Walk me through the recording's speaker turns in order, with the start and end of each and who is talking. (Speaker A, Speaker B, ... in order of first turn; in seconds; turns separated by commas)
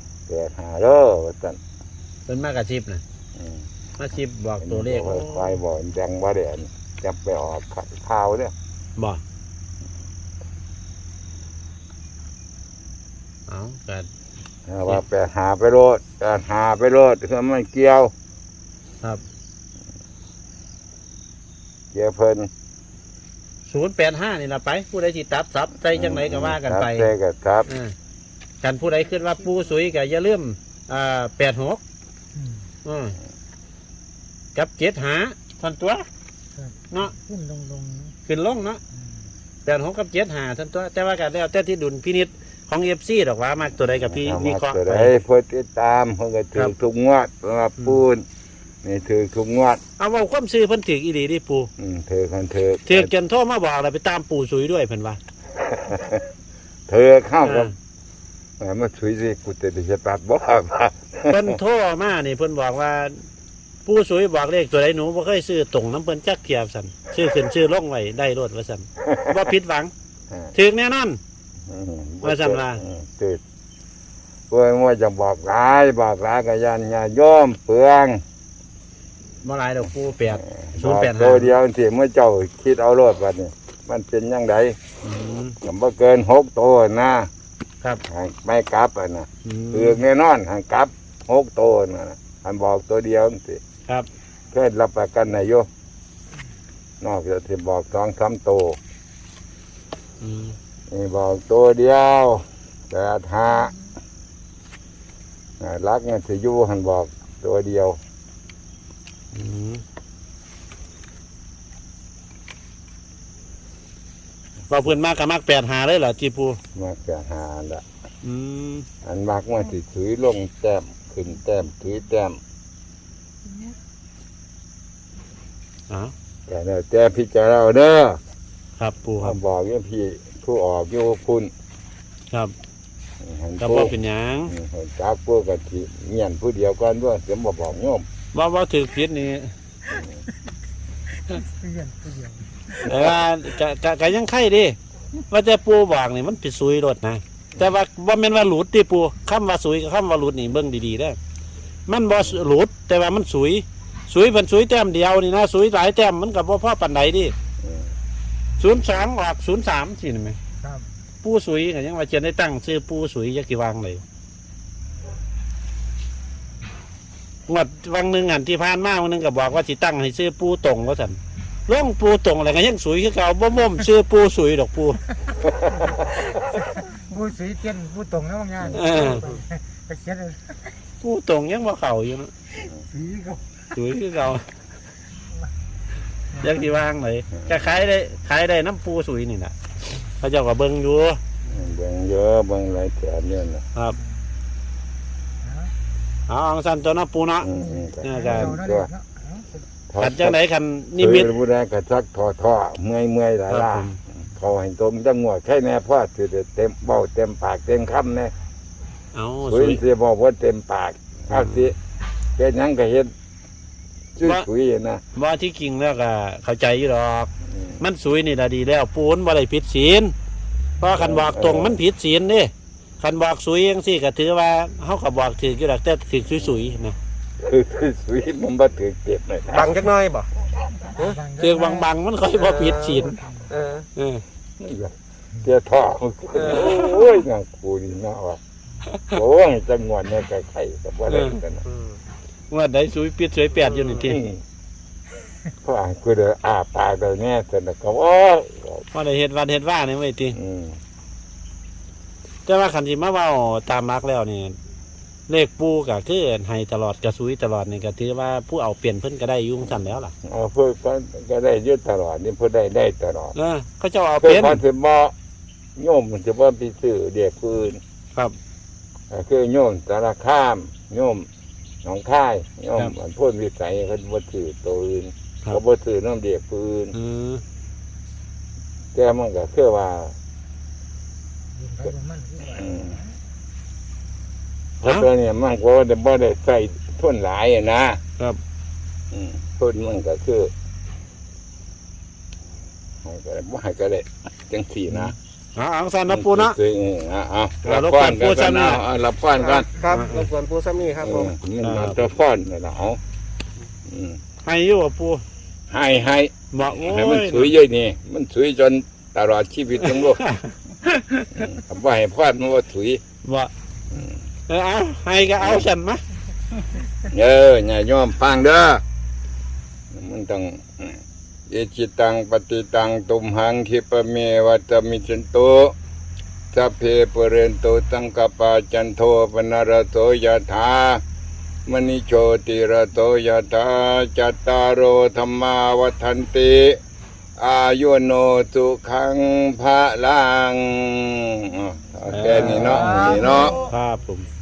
Speaker A: 0.3-1.6, Speaker B: 2.2-3.0, Speaker A: 3.4-3.6, Speaker B: 4.0-5.6, Speaker A: 4.6-8.5, Speaker B: 9.0-9.2, Speaker B: 13.5-14.1, Speaker A: 14.7-18.1, Speaker A: 21.9-22.5, Speaker B: 23.7-27.1, Speaker A: 25.9-27.7, Speaker B: 27.7-27.9, Speaker B: 28.6-31.8, Speaker B: 32.8-33.2, Speaker B: 34.5-36.0, Speaker B: 36.9-37.1, Speaker C: 37.1-38.1, Speaker B: 38.2-38.8, Speaker B: 39.6-45.1, Speaker A: 43.8-48.2, Speaker A: 48.8-49.8, Speaker B: 50.0-51.7, Speaker A: 51.8-53.1, Speaker B: 52.9-55.2, Speaker A: 55.6-56.2, Speaker A: 56.9-57.7, Speaker B: 57.4-57.7, Speaker A: 58.6-61.6, Speaker B: 61.3-63.3, Speaker B: 63.8-69.9, Speaker A: 69.0-69.3, Speaker B: 70.5-71.2, Speaker A: 71.7-73.4, Speaker B: 72.2-72.8, Speaker A: 74.5-78.2, Speaker B: 79.4-81.5, Speaker A: 80.3-84.8, Speaker B: 85.0-85.5, Speaker A: 85.6-87.3, Speaker A: 88.1-93.6, Speaker B: 89.4-90.0, Speaker A: 94.5-95.7, Speaker A: 97.0-98.8, Speaker B: 100.2-100.5, Speaker A: 100.9-103.7, Speaker A: 105.6-108.0, Speaker B: 109.3-109.8, Speaker B: 114.7-116.6, Speaker A: 116.7-117.8, Speaker B: 118.2-118.9, Speaker A: 119.0-122.4, Speaker A: 126.5-128.2, Speaker B: 128.8-129.4, Speaker A: 129.2-131.5, Speaker A: 133.2-133.9, Speaker B: 133.6-134.5, Speaker A: 134.5-138.0, Speaker B: 138.3-139.5, Speaker C: 141.3-142.6, Speaker B: 142.8-144.8, Speaker A: 142.9-143.1, Speaker B: 145.3-151.2, Speaker B: 151.9-157.3, Speaker A: 157.6-157.9, Speaker B: 158.6-160.4, Speaker B: 161.2-164.0, Speaker B: 167.5-175.1, Speaker A: 175.5-175.8, Speaker C: 176.1-180.5, Speaker A: 178.6-179.1, Speaker B: 178.7-179.2, Speaker B: 181.0-182.3, Speaker C: 183.0-183.4, Speaker B: 183.7-184.4, Speaker B: 186.3-189.5, Speaker B: 190.1-191.2, Speaker A: 191.5-193.6, Speaker B: 196.3-198.6, Speaker A: 197.4-198.9, Speaker C: 198.8-199.5, Speaker A: 199.9-200.4, Speaker B: 200.0-201.3, Speaker A: 201.0-208.3, Speaker B: 203.5-204.0, Speaker B: 209.1-209.8, Speaker A: 209.4-211.7, Speaker B: 211.3-211.7, Speaker A: 212.4-213.1, Speaker A: 214.2-215.0, Speaker B: 215.1-220.1, Speaker A: 217.5-217.8, Speaker B: 220.8-226.9, Speaker A: 220.9-221.8, Speaker A: 227.4-229.8, Speaker D: 229.5-230.3, Speaker D: 231.0-231.2, Speaker C: 231.1-231.6, Speaker B: 231.3-233.2, Speaker D: 232.3-233.8, Speaker B: 233.9-234.2, Speaker A: 234.6-238.4, Speaker D: 236.4-236.8, Speaker B: 236.6-236.9, Speaker A: 239.1-241.6, Speaker B: 241.1-241.4, Speaker D: 241.7-242.0, Speaker B: 242.5-244.2, Speaker D: 243.6-244.0, Speaker A: 244.1-244.4, Speaker A: 245.6-248.8, Speaker B: 248.9-250.4, Speaker A: 250.3-250.8, Speaker B: 252.4-254.5, Speaker B: 255.3-260.1, Speaker A: 259.7-263.3, Speaker B: 263.3-264.6, Speaker A: 264.2-265.1, Speaker A: 265.8-267.8, Speaker A: 269.1-271.3, Speaker A: 271.8-276.9, Speaker B: 276.9-277.4, Speaker A: 278.9-280.1, Speaker C: 281.6-282.5, Speaker A: 281.8-283.0, Speaker A: 284.8-288.0, Speaker A: 289.1-290.5, Speaker A: 293.0-295.1, Speaker B: 294.9-296.6, Speaker A: 296.1-299.7, Speaker B: 297.6-298.8, Speaker D: 299.4-301.3, Speaker B: 299.9-300.3, Speaker A: 301.0-303.0, Speaker B: 301.6-302.1, Speaker A: 303.9-304.2, Speaker B: 304.4-305.2, Speaker A: 305.7-310.2, Speaker B: 306.5-307.5, Speaker B: 310.2-311.5, Speaker A: 311.3-313.0, Speaker B: 313.2-313.5, Speaker B: 314.5-316.0, Speaker A: 315.4-315.7, Speaker A: 317.1-318.8, Speaker A: 319.9-325.8, Speaker A: 326.5-331.0, Speaker A: 331.7-336.8, Speaker A: 337.4-343.6, Speaker B: 342.1-344.3